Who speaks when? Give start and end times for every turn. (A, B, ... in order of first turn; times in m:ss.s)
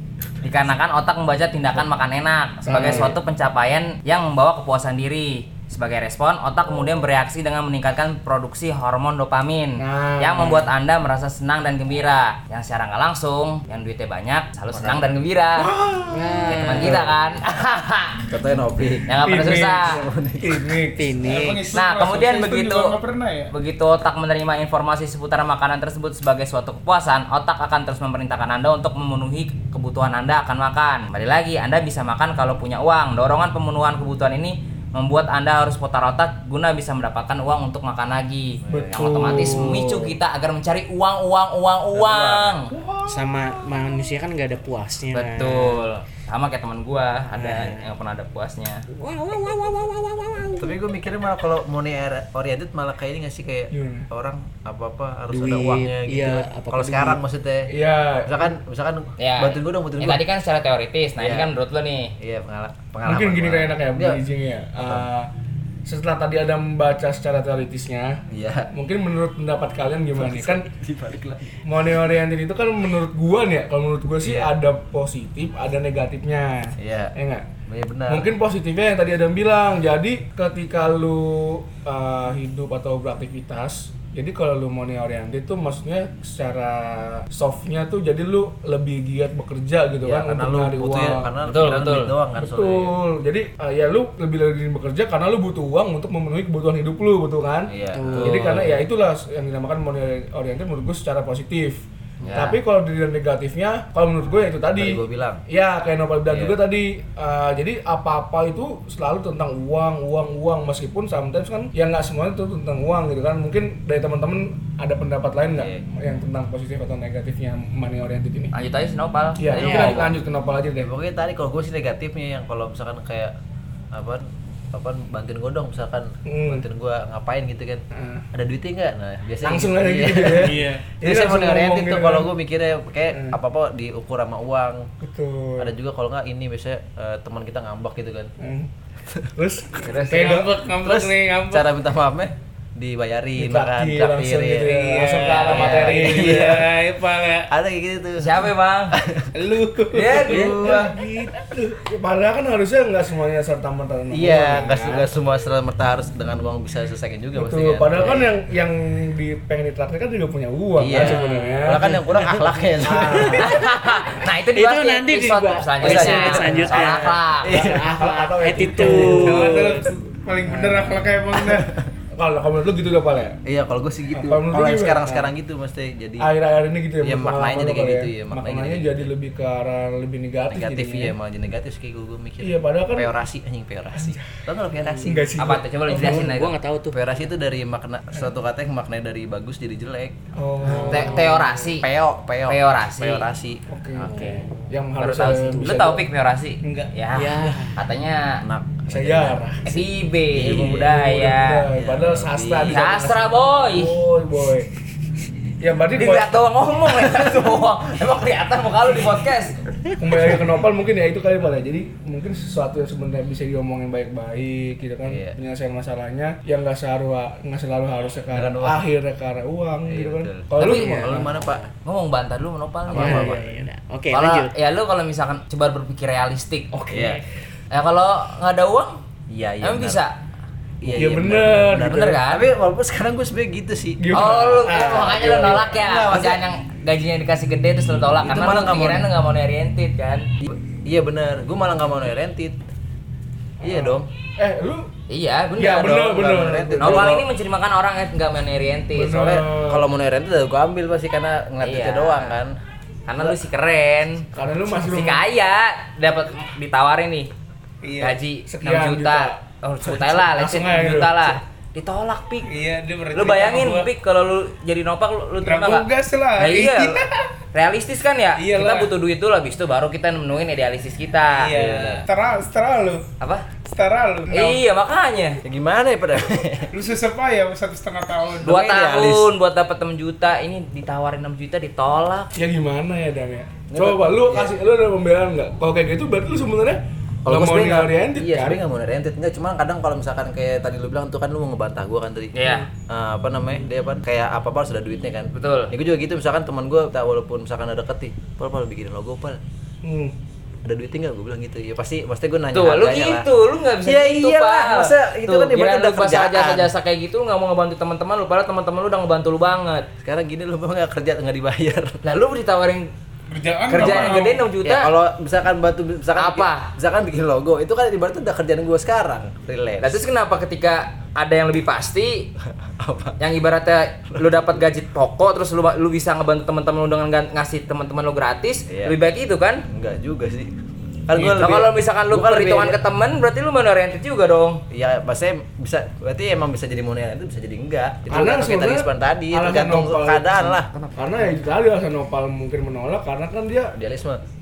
0:00.4-0:15.7 A
0:02.6-0:03.2 B
0:02.8-0:03.1 C
0:09.8-0:10.7 B
0:14.7-0:15.1 C
0:15.6-0:17.0 B
0:16.1-0:17.1 D
0:16.5-0:18.2 A
0:18.3-0:20.7 C
0:19.1-0:20.0 A
0:19.2-0:21.2 B
0:20.9-0:21.7 D
0:21.2-0:23.5 E
0:21.7-0:22.9 A
0:23.5-0:42.7 A
0:38.6-0:39.7 C
0:38.7-0:40.2 B
0:41.9-0:42.6 C
0:42.7-0:43.5 B
0:43.1-0:45.9 D
0:45.1-0:48.8 A
0:47.4-0:47.9 D
0:48.9-0:50.7 D
0:50.6-0:57.7 C
0:53.7-0:54.1 B
0:55.3-0:57.2 D
0:57.7-0:58.5 B
0:58.2-1:00.2 C
0:59.2-1:02.1 A
1:01.2-1:01.5 C
1:02.2-1:04.2 C
1:03.0-1:05.3 B
1:04.8-1:05.1 C
1:05.9-1:08.2 B
1:08.3-1:08.7 C
1:08.7-1:10.7 B
1:10.2-1:11.6 C
1:11.6-1:17.5 B
1:14.2-1:14.5 C
1:16.8-1:17.1 C
1:17.7-1:18.3 C
1:18.1-1:31.3 B
1:30.0-1:33.0 C
1:31.4-1:32.1 A
1:32.4-1:41.8 B
1:37.7-1:38.7 C
1:37.9-1:38.6 D
1:42.2-1:42.5 C
1:42.2-1:42.6 A
1:42.3-1:58.5 B
1:44.8-1:45.4 C
1:46.3-1:46.6 C
1:55.5-1:55.8 C
1:58.5-2:00.1 A
1:59.4-2:00.9 B
1:59.5-2:00.1 C
1:59.6-2:00.0 D
2:00.8-2:03.3 C
2:03.9-2:14.9 C
2:06.3-2:06.6 B
2:07.9-2:08.2 B
2:09.4-2:12.3 B
2:10.4-2:10.9 D
2:13.1-2:13.4 B
2:15.0-2:15.7 B
2:15.6-2:18.3 C
2:18.4-2:18.7 B
2:19.4-2:20.6 B
2:19.8-2:20.4 A
2:20.1-2:21.6 D
2:20.1-2:21.6 E
2:20.8-2:25.0 C
2:23.4-2:26.7 B
2:24.8-2:27.5 E
2:25.5-2:26.2 A
2:25.5-2:26.8 C
2:27.5-2:29.3 C
2:28.2-2:29.0 A
2:29.3-2:30.4 E
2:29.9-2:30.9 A
2:30.0-2:31.0 C
2:30.2-2:35.1 B
2:34.1-2:38.4 C
2:37.4-2:42.1 B
2:40.8-2:43.7 C
2:41.0-2:42.5 D
2:42.8-2:43.7 B
2:43.4-2:47.7 A
2:44.5-2:49.9 D
2:45.8-2:46.8 C
2:47.4-2:47.9 C
2:47.8-2:51.2 B
2:49.0-2:51.7 E
2:52.1-2:53.4 B
2:53.4-2:56.3 C
2:54.1-2:55.3 B
2:56.2-3:01.1 B
2:57.0-2:59.1 C
3:00.5-3:05.4 C
3:02.4-3:03.1 B
3:03.9-3:04.3 B
3:04.8-3:05.1 D
3:05.0-3:06.2 B
3:05.4-3:06.6 A
3:05.8-3:07.0 D
3:06.9-3:14.5 C
3:10.4-3:11.5 B
3:10.6-3:11.2 D
3:10.9-3:11.9 A
3:12.5-3:13.3 A
3:13.7-3:16.0 B
3:14.2-3:14.4 A
3:14.2-3:14.6 D
3:15.0-3:18.4 A
3:16.6-3:16.9 B
3:17.1-3:17.8 D
3:18.4-3:19.5 C
3:18.9-3:19.8 B
3:19.6-3:21.7 A
3:20.3-3:20.9 C
3:20.4-3:24.7 B
3:21.7-3:23.0 C
3:22.7-3:24.0 A
3:25.6-3:26.4 B
3:26.0-3:29.6 A
3:30.0-3:41.3 B
3:35.0-3:35.4 C
3:38.3-3:38.9 C
3:39.9-3:41.6 C
3:40.6-3:41.2 A
3:41.2-3:41.7 D
3:41.8-3:43.4 A
3:42.9-3:43.5 C
3:43.0-3:44.5 D
3:44.1-3:46.7 A
3:46.7-3:47.2 D
3:46.9-3:47.2 C
3:47.7-3:49.0 A
3:49.3-3:50.0 C
3:49.6-3:50.2 A
3:50.8-3:54.4 C
3:50.9-3:52.2 B
3:51.8-3:52.4 A
3:54.0-3:55.6 B
3:54.1-4:00.3 A
3:54.9-3:56.4 C
3:58.2-3:59.1 C
4:00.4-4:02.6 C
4:03.6-4:04.1 C
4:03.6-4:04.9 B
4:05.1-4:06.2 A
4:05.6-4:07.3 B
4:05.8-4:07.2 C
4:06.8-4:09.3 A
4:08.9-4:09.9 B
4:09.1-4:12.6 C
4:11.6-4:12.4 A
4:13.1-4:14.3 A
4:14.3-4:15.2 B
4:14.8-4:17.3 A
4:17.8-4:18.2 E
4:18.0-4:22.5 A
4:18.5-4:21.4 B
4:22.5-4:23.9 E
4:23.1-4:25.9 A
4:25.4-4:27.2 E
4:26.4-4:27.0 A
4:27.5-4:31.5 A
4:28.4-4:28.9 E
4:31.3-4:33.0 E
4:31.5-4:32.1 C
4:33.2-4:33.4 A
4:33.7-4:34.6 E
4:34.3-4:35.4 A
4:35.4-4:36.7 C
4:36.7-4:38.5 E
4:38.4-4:39.3 C
4:38.4-4:42.3 A
4:42.4-4:48.6 B
4:43.7-4:44.6 C
4:47.3-4:59.4 C
4:52.3-4:52.7 A
4:55.3-4:55.7 A
4:59.8-5:00.1 B
5:00.6-5:03.3 C
5:02.5-5:09.9 A
5:03.8-5:06.7 C
5:10.0-5:12.0 C
5:12.0-5:12.9 A
5:13.3-5:14.4 E
5:13.7-5:14.9 A
5:13.8-5:20.0 C
5:16.2-5:16.7 A
5:19.8-5:22.3 A
5:22.6-5:23.2 C
5:23.2-5:29.6 A
5:24.1-5:24.5 C
5:28.7-5:29.0 C
5:29.7-5:30.5 C
5:31.1-5:32.8 C
5:31.2-5:34.6 A
5:34.7-5:40.7 C
5:38.1-5:43.8 B
5:43.7-5:44.2 C